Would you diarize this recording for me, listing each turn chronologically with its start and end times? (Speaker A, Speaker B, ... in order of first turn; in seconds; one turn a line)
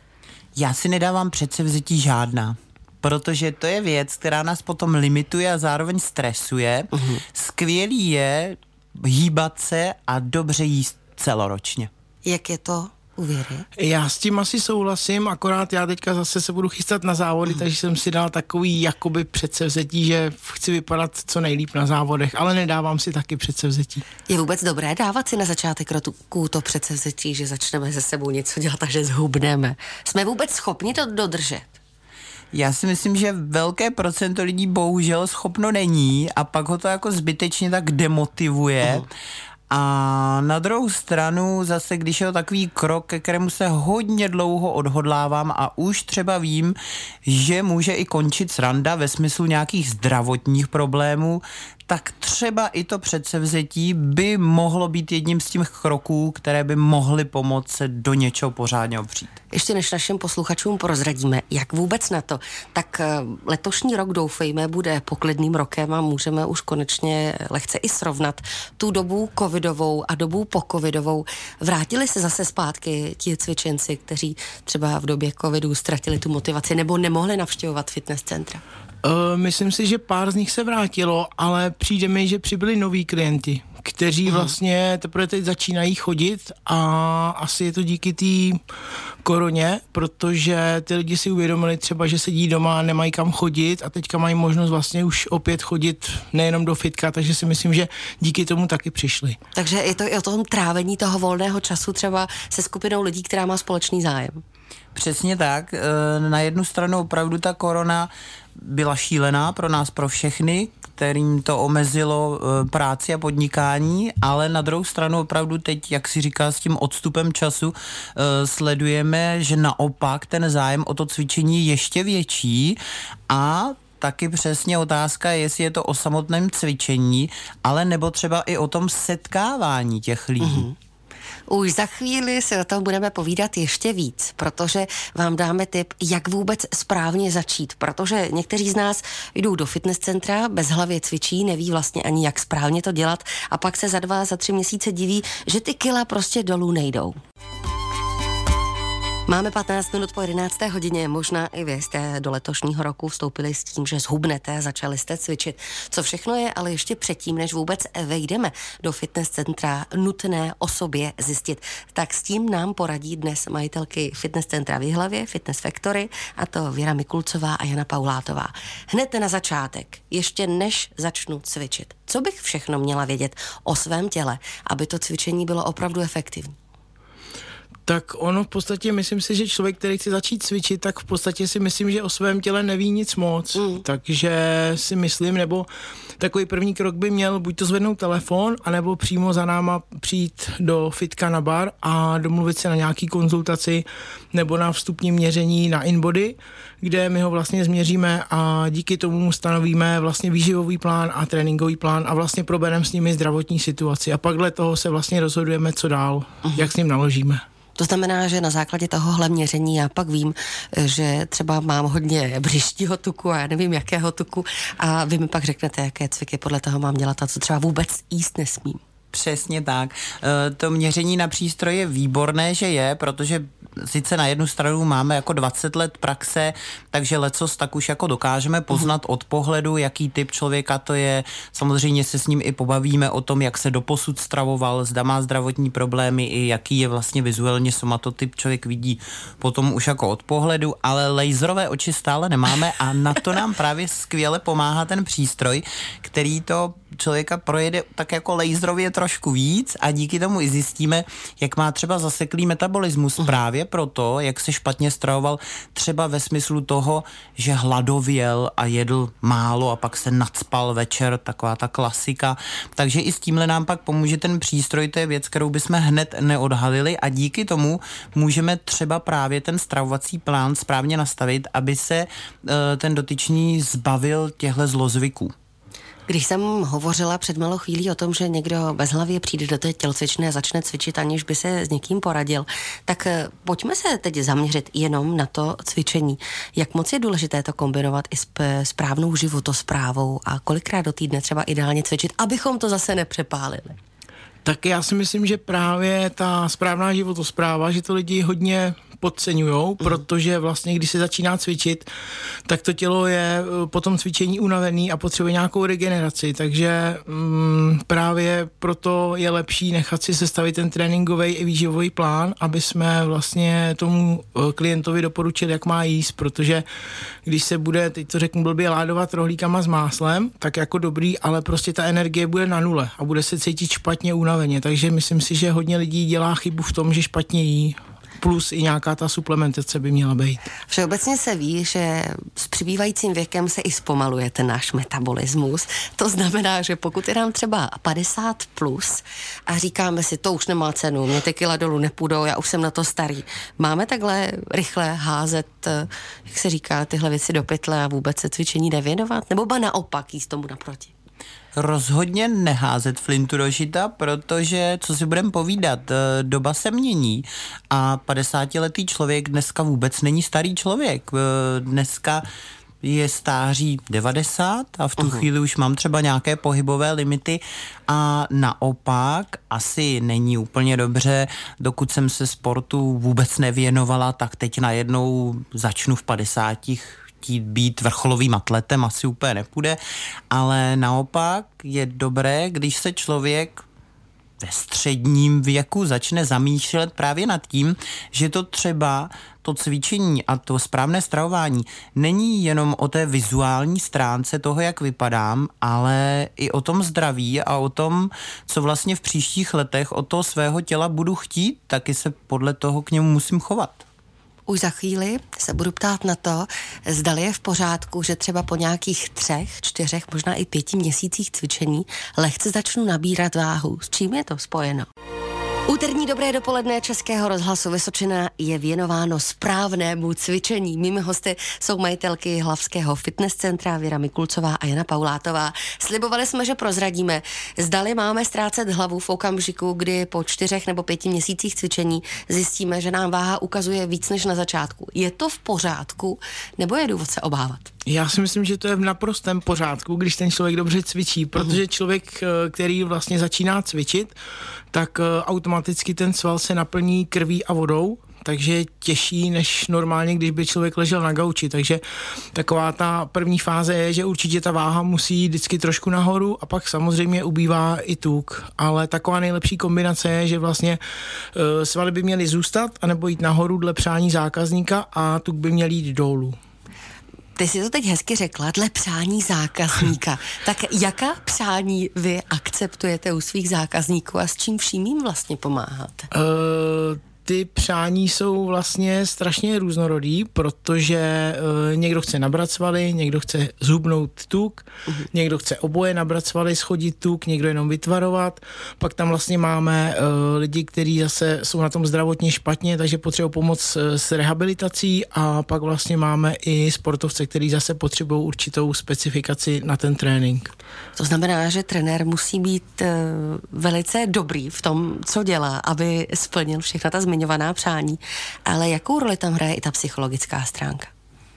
Speaker A: 0.6-11.9
Speaker B: 6.9-7.2
Speaker B: 12.2-13.7
Speaker C: 13.8-24.1
Speaker B: 24.3-31.8
Speaker A: 32.5-39.1
Speaker A: 39.7-59.4
Speaker B: 59.5-78.6
Speaker C: 79.0-88.6
Speaker C: 89.2-99.4
Speaker B: 99.5-104.4
Speaker A: 105.0-130.7
Speaker B: 130.4-130.8
Speaker B: 131.5-147.2
Speaker B: 149.3-176.5
Speaker C: 177.9-185.7
Speaker B: 183.6-183.8
Speaker C: 186.2-207.4
Speaker B: 207.8-218.8
Speaker A: 219.1-275.3
Speaker B: 276.1-293.8
Speaker C: 294.4-301.9
Speaker C: 302.5-316.7
Speaker C: 317.2-330.4
Speaker B: 330.7-350.9
Speaker A: 351.6-362.2
Speaker A: 362.8-379.8
Speaker B: 365.0-365.3
Speaker A: 380.3-383.6
Speaker A: 384.4-403.8
Speaker B: 404.5-414.9
Speaker B: 415.7-437.7
Speaker C: 437.9-444.1
Speaker C: 444.7-451.8
Speaker C: 452.3-460.8
Speaker C: 461.3-466.4
Speaker B: 467.4-476.1
Speaker C: 476.1-500.5
Speaker B: 501.0-510.9